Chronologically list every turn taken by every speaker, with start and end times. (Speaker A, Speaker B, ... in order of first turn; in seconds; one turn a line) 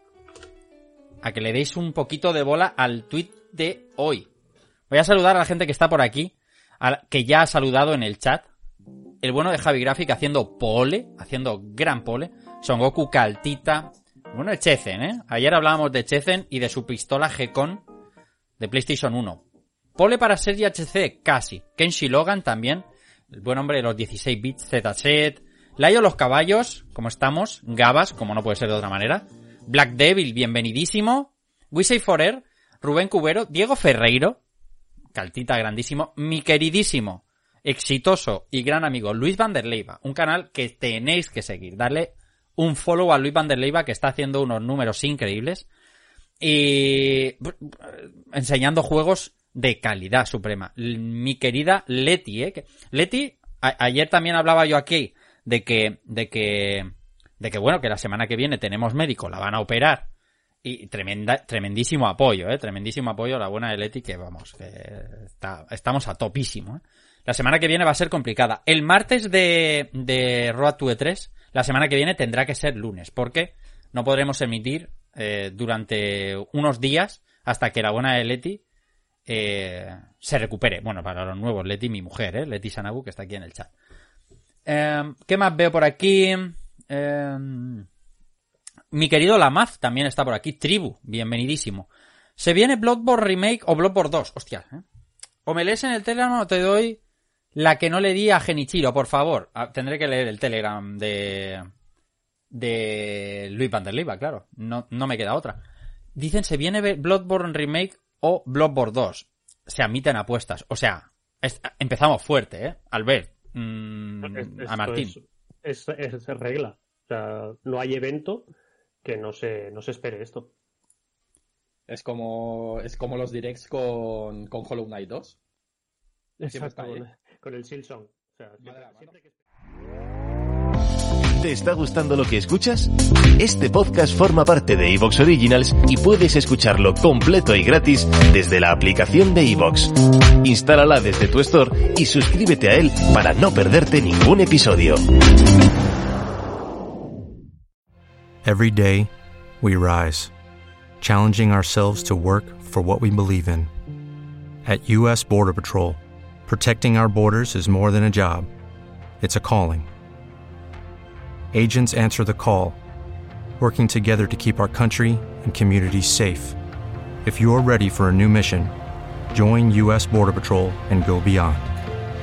Speaker A: 1.2-4.3
Speaker A: 4.9-8.5
Speaker A: 9.2-17.8
Speaker A: 18.6-19.4
Speaker A: 20.0-34.4
Speaker A: 35.1-45.7
Speaker A: 46.4-60.1
Speaker A: 60.6-78.6
Speaker A: 79.3-83.7
Speaker A: 84.7-87.9
Speaker A: 88.9-94.8
Speaker A: 95.5-97.0
Speaker A: 97.5-101.7
Speaker A: 102.5-105.6
Speaker A: 106.2-115.2
Speaker B: 114.2-118.5
Speaker B: 119.0-120.5
Speaker C: 121.9-125.4
Speaker B: 126.4-129.4
Speaker C: 126.5-127.0
Speaker C: 128.6-129.1
Speaker D: 131.4-132.9
Speaker D: 133.4-139.9
Speaker D: 140.4-145.0
Speaker E: 148.4-149.1
Speaker E: 149.6-150.3
Speaker E: 151.0-153.7
Speaker E: 154.7-158.5
Speaker E: 159.2-159.9
Speaker E: 161.5-162.8
Speaker E: 163.6-166.6
Speaker E: 167.2-168.7
Speaker E: 169.3-171.7